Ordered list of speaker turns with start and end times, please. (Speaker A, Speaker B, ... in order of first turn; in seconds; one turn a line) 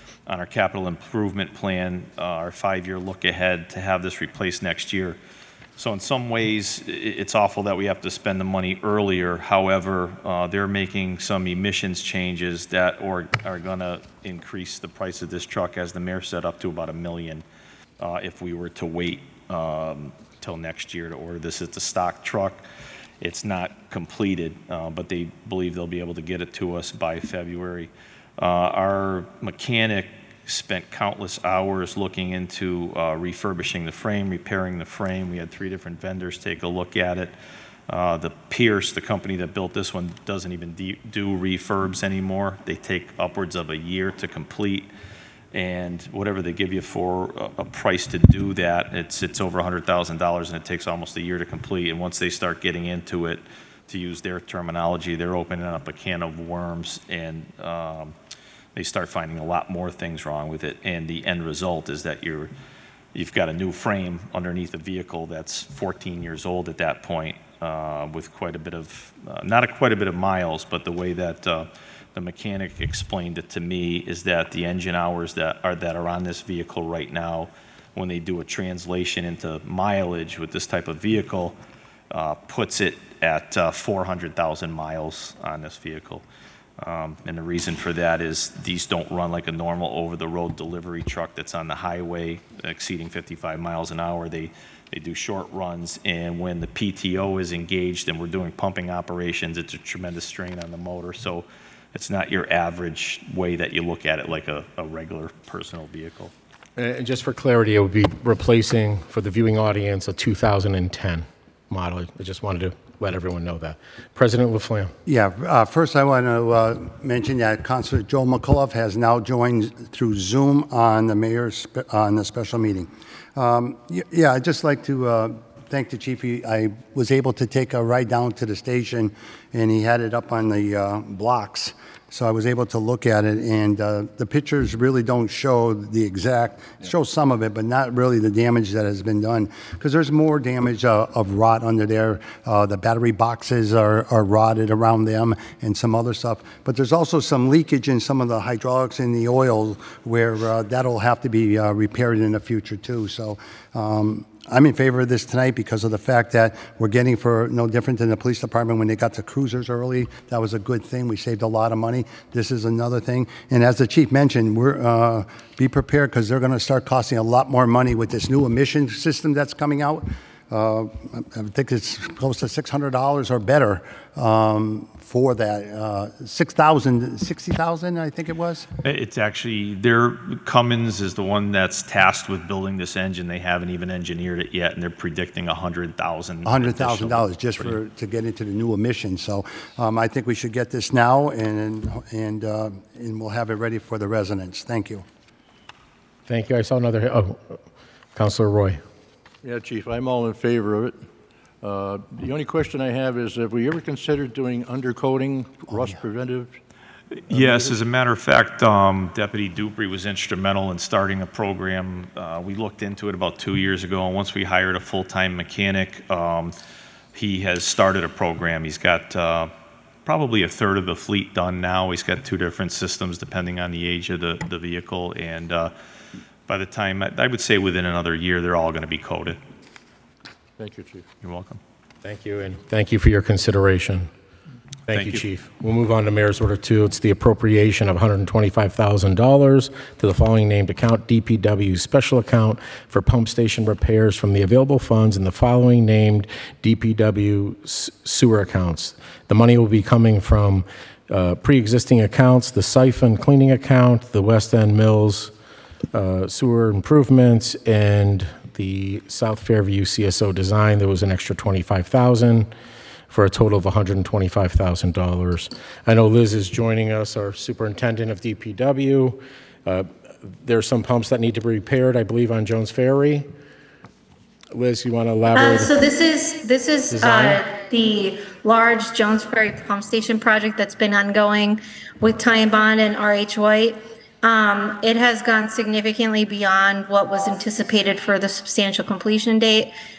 Speaker A: 0.3-5.2
Speaker A: 5.8-17.4
Speaker A: 18.0-22.6
Speaker A: 23.2-37.4
Speaker A: 37.9-44.9
Speaker A: 45.5-58.1
Speaker A: 58.8-62.5
Speaker A: 63.1-81.6
Speaker A: 82.1-86.2
Speaker A: 86.8-106.3
Speaker B: 106.8-115.0
Speaker C: 115.1-178.7
Speaker A: 178.8-187.8
Speaker C: 186.5-195.1
Speaker B: 196.3-197.6
Speaker B: 198.2-198.8
Speaker D: 199.4-201.0
Speaker D: 201.6-206.5
Speaker D: 207.3-207.8
Speaker A: 207.3-216.5
Speaker A: 217.1-219.5
Speaker A: 220.1-225.7
Speaker A: 226.5-229.4
Speaker D: 230.6-231.1
Speaker A: 231.2-231.6
Speaker B: 232.0-234.1
Speaker B: 234.9-255.3
Speaker A: 234.9-235.2
Speaker B: 255.9-262.5
Speaker B: 263.1-273.3
Speaker B: 274.5-275.7
Speaker E: 275.4-289.7
Speaker B: 276.9-277.4